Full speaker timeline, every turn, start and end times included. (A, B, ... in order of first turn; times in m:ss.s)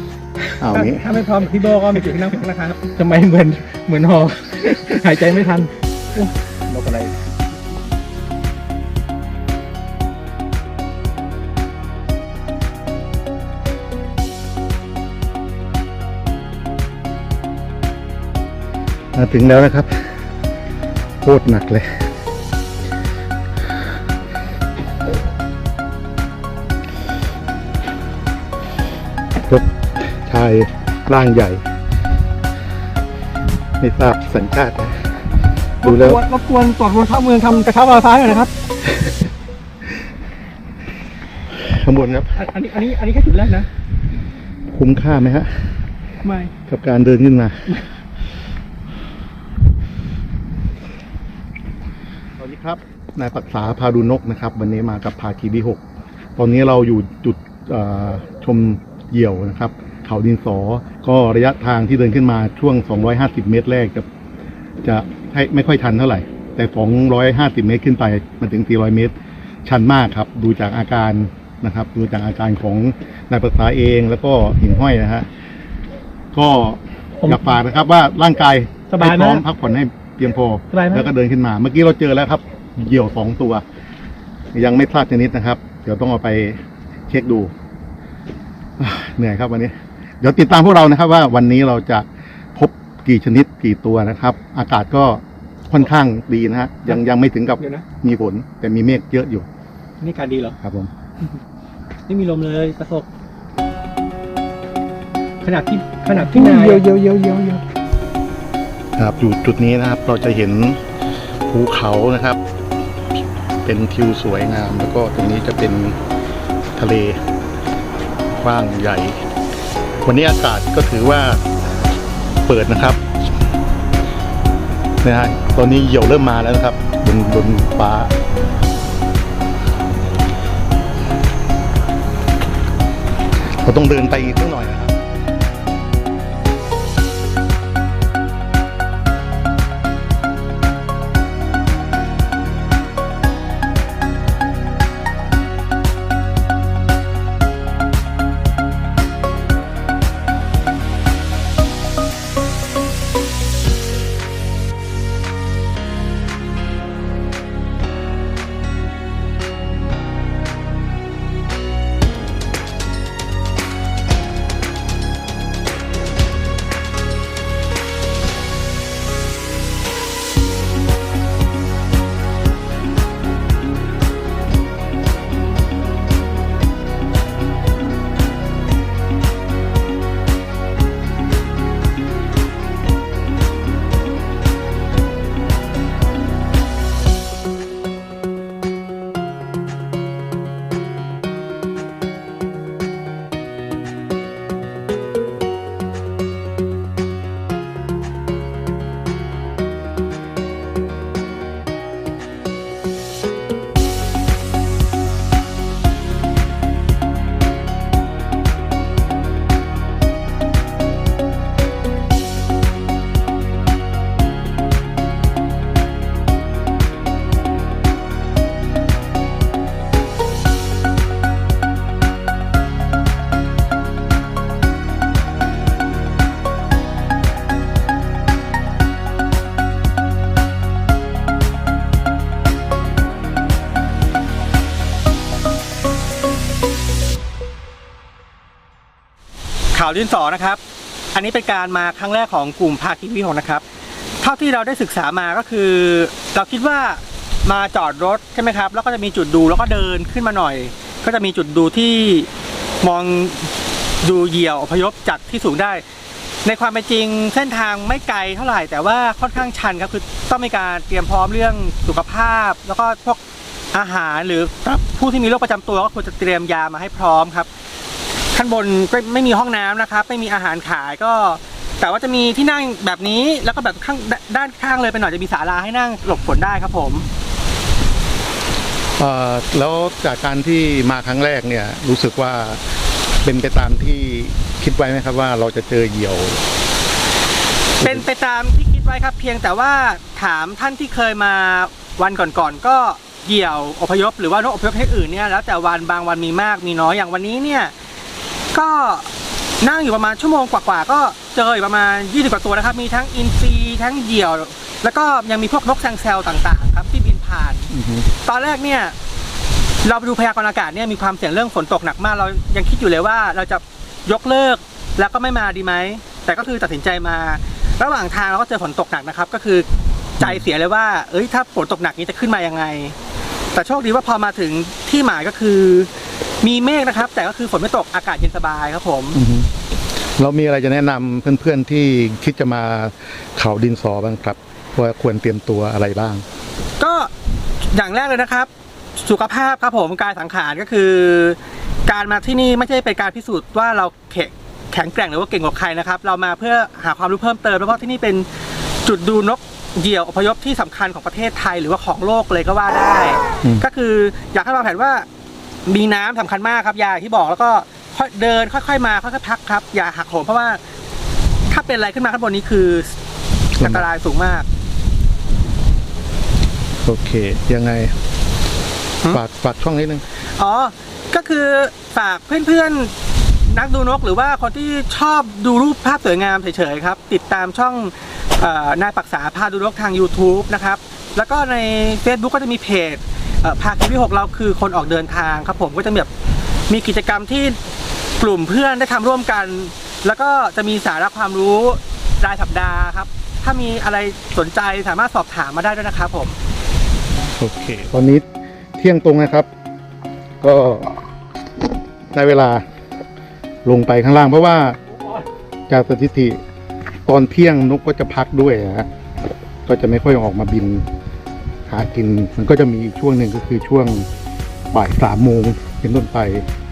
0:00.6-0:01.2 A
0:00.7-0:04.2 B
0:03.1-0:05.7 C
0:04.9-0:06.3 B
0:06.7-0:07.1 C
0:19.1-0:20.2 A
0:21.2-0:22.1 A
0:29.4-0:31.6 A
0:33.8-0:35.2 A
0:35.8-0:36.2 A
0:35.8-0:38.5 B
0:41.5-0:42.3 A
0:42.3-0:43.7 B
0:44.7-0:45.8 A
0:46.2-0:46.5 B
0:46.7-0:47.8 A
0:52.4-0:55.8 A
0:56.4-1:04.1 A
1:04.8-1:15.3 A
1:16.3-1:23.6 A
1:18.9-1:19.4 B
1:20.7-1:21.1 B
1:24.5-1:27.5 A
1:28.8-1:39.5 A
1:37.6-1:37.8 B
1:40.0-1:40.6 B
1:40.6-1:40.9 A
1:42.1-1:43.1 B
1:45.4-1:46.8 B
1:46.3-1:47.6 C
1:49.0-1:50.8 A
1:51.5-1:52.4 A
1:53.6-1:56.0 A
1:56.7-1:57.2 A
1:58.4-1:59.2 A
2:00.0-2:01.4 A
2:02.4-2:03.1 A
2:05.0-2:08.1 A
2:13.6-2:15.0 A
3:59.7-4:00.6 B
4:01.1-4:03.6 B
4:04.2-4:12.3 B
4:12.8-4:15.8 B
4:16.4-4:23.2 B
4:23.7-4:27.5 B
4:28.3-4:37.0 B
4:39.0-4:42.6 A
4:43.2-4:46.4 A
4:47.8-4:57.7 B
4:58.5-4:59.1 B
4:59.6-5:07.7 B
5:07.7-5:08.1 A
5:08.2-5:08.9 B
5:09.8-5:19.6 B
5:20.2-5:22.9 B
5:20.2-5:20.4 A
5:23.5-5:25.9 B
5:26.4-5:29.2 B
5:29.1-5:36.2 A
5:36.8-5:37.1 B
5:37.7-5:48.3 B
5:48.8-5:55.0 B
5:55.7-6:00.6 B
6:01.5-6:02.9 B
6:03.6-6:03.9 A
6:03.6-6:04.4 B
6:06.8-6:08.0 A
6:09.1-6:10.0 A
6:10.4-6:12.9 B
6:13.5-6:26.1 B
6:26.7-6:27.6 B
6:28.2-6:36.3 B
6:37.4-6:38.2 A
6:38.8-6:39.5 A
6:40.4-6:41.0 A
6:42.1-6:42.6 A
6:43.6-6:44.8 A
6:45.7-6:46.4 A
6:47.0-6:48.9 A
6:49.6-6:50.9 A
6:51.7-6:54.1 A
6:54.7-6:56.5 A